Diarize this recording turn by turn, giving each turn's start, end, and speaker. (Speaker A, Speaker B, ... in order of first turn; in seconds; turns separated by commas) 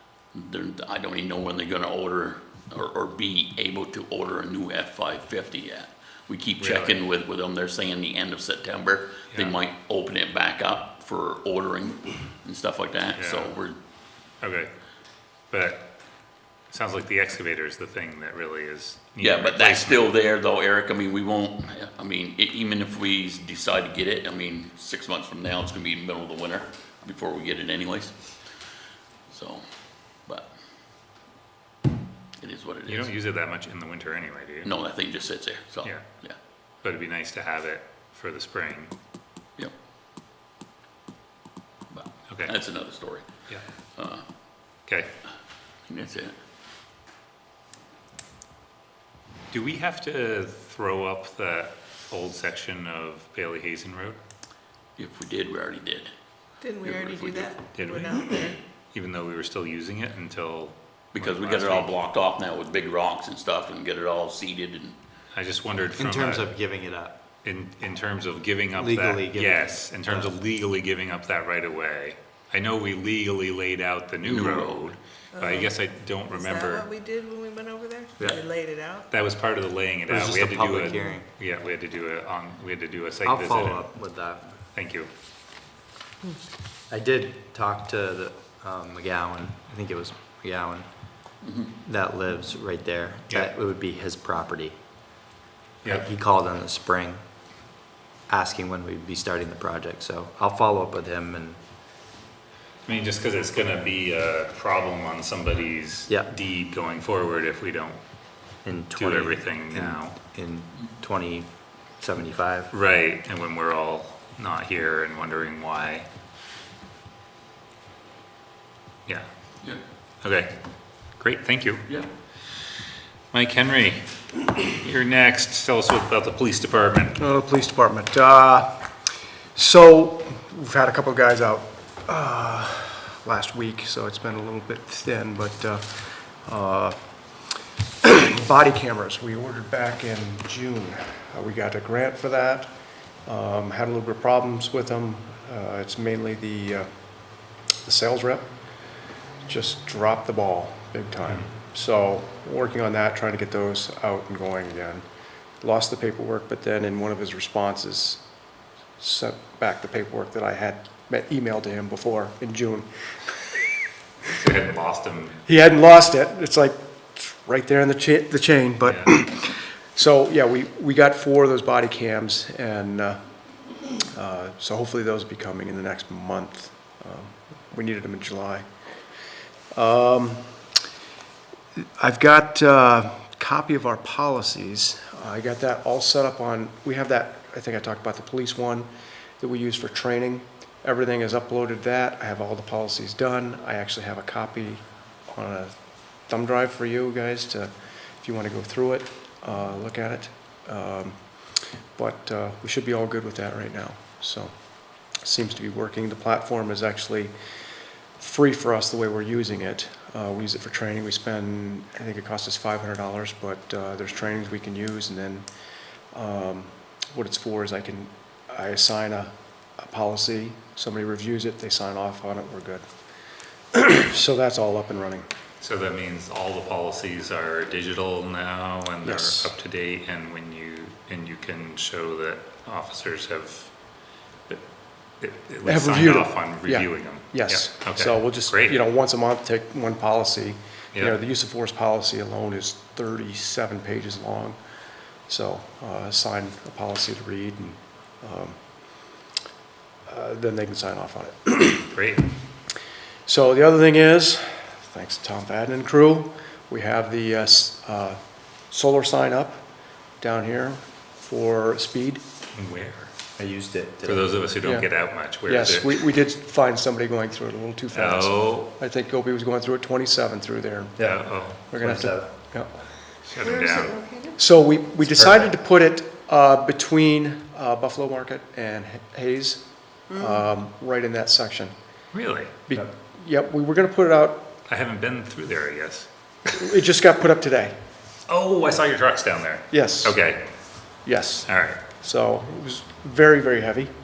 Speaker A: 0.3-13.8, Speaker B: 6.6-7.0, Speaker B: 13.1-13.5, Speaker B: 14.4-14.7, Speaker B: 15.5-15.9, Speaker B: 16.7-20.0, Speaker A: 19.2-28.2, Speaker A: 29.3-29.6, Speaker A: 30.2-30.5, Speaker A: 32.4-33.1, Speaker B: 32.9-34.7, Speaker A: 34.6-36.4, Speaker B: 36.8-38.9, Speaker A: 41.9-44.3, Speaker A: 45.9-46.4, Speaker B: 49.5-54.2, Speaker A: 55.0-56.1, Speaker C: 56.6-58.6, Speaker A: 56.8-57.7, Speaker B: 57.7-62.0, Speaker A: 61.1-65.0, Speaker B: 65.3-66.5, Speaker D: 65.9-67.2, Speaker B: 67.4-76.9, Speaker D: 68.7-70.3, Speaker A: 74.2-74.9, Speaker C: 75.3-75.7, Speaker C: 76.3-79.1, Speaker D: 78.2-78.5, Speaker B: 79.1-84.0, Speaker D: 80.1-81.3, Speaker D: 83.2-84.6, Speaker B: 84.7-85.1, Speaker D: 86.9-90.9, Speaker A: 91.4-91.7, Speaker D: 91.8-94.8, Speaker D: 95.8-97.2, Speaker D: 98.3-101.6, Speaker B: 102.8-108.0, Speaker D: 108.6-112.7, Speaker B: 108.9-110.2, Speaker B: 112.7-116.0, Speaker B: 120.2-120.5, Speaker B: 121.2-121.9, Speaker B: 123.3-127.2, Speaker E: 127.2-128.9, Speaker E: 129.5-137.0, Speaker E: 138.0-142.7, Speaker E: 143.2-146.9, Speaker E: 147.8-148.5, Speaker E: 149.4-155.0, Speaker E: 155.6-158.2, Speaker E: 159.0-163.6, Speaker B: 164.3-165.4, Speaker E: 165.4-173.2, Speaker B: 168.8-169.1, Speaker E: 174.1-178.7, Speaker E: 179.7-180.6, Speaker E: 182.0-188.9, Speaker E: 189.4-201.2, Speaker E: 201.9-204.5, Speaker E: 205.2-207.3, Speaker E: 208.2-215.5, Speaker E: 216.1-222.8, Speaker E: 223.7-225.3, Speaker B: 225.6-233.7, Speaker E: 229.0-229.5, Speaker B: 235.2-238.8, Speaker E: 235.6-244.6, Speaker E: 245.3-249.1, Speaker E: 250.1-251.9, Speaker B: 251.9-252.3, Speaker E: 253.2-258.2, Speaker E: 258.7-259.6, Speaker E: 260.2-262.2, Speaker B: 262.5-263.1, Speaker D: 263.4-264.3, Speaker B: 264.0-266.0, Speaker E: 264.6-264.9, Speaker E: 265.4-272.8, Speaker B: 267.9-268.7, Speaker D: 271.0-272.3, Speaker B: 271.0-271.7, Speaker B: 273.2-274.0, Speaker C: 273.4-274.4, Speaker E: 274.4-281.7, Speaker D: 275.0-275.5, Speaker B: 282.1-282.6, Speaker E: 282.7-284.5, Speaker B: 284.7-286.1, Speaker E: 286.5-287.7, Speaker B: 288.3-290.5, Speaker E: 289.7-290.2, Speaker E: 291.0-293.9, Speaker B: 291.4-291.8